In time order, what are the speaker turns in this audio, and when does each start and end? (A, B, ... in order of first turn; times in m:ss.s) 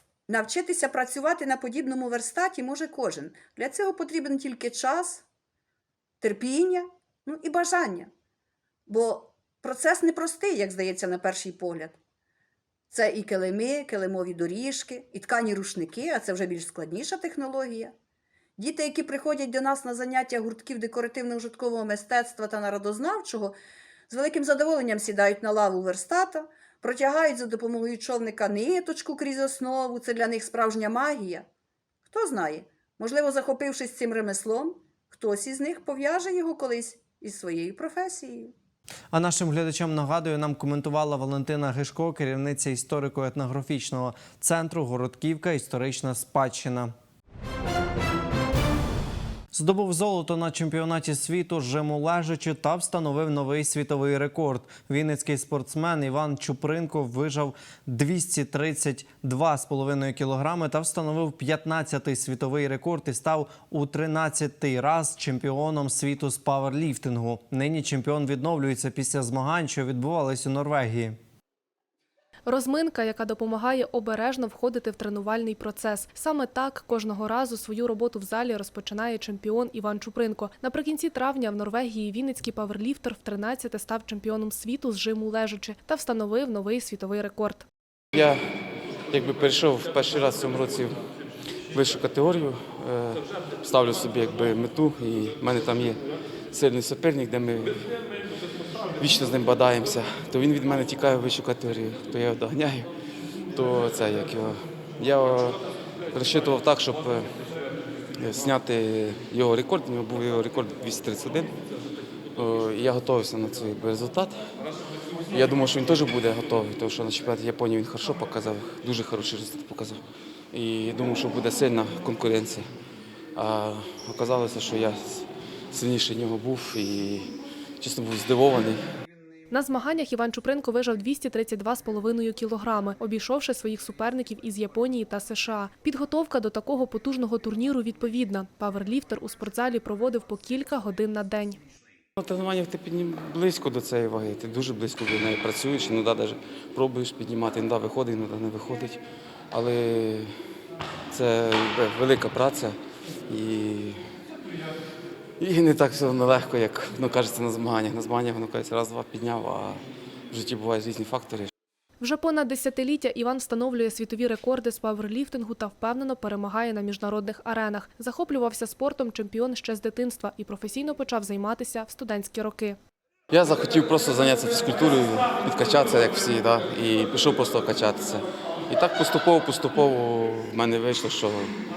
0:00.3-0:05.2 A
0:06.2-0:08.1 A
0:08.9-0:12.0 A
0:12.9-0:17.9 A
0:18.6-0:23.6 A
0:24.1-0:31.4 A
0:32.1-0:38.5 A
0:39.1-0:46.9 B
0:49.5-1:11.2 B
1:12.5-1:27.6 C
1:28.1-1:28.4 D
1:29.1-1:31.0 D
1:31.7-1:36.0 D
1:36.5-1:37.8 D
1:39.0-1:42.9 D
1:43.5-1:45.6 D
1:46.1-1:47.3 D
1:48.2-1:51.5 D
1:52.4-1:54.4 D
1:55.3-2:00.0 D
2:00.5-2:02.7 D
2:03.3-2:08.8 D
2:09.5-2:21.6 C
2:22.2-2:30.3 D
2:31.1-2:32.8 D
2:33.3-2:34.0 D
2:35.4-2:41.5 D
2:42.0-2:52.8 C
2:53.3-3:01.5 D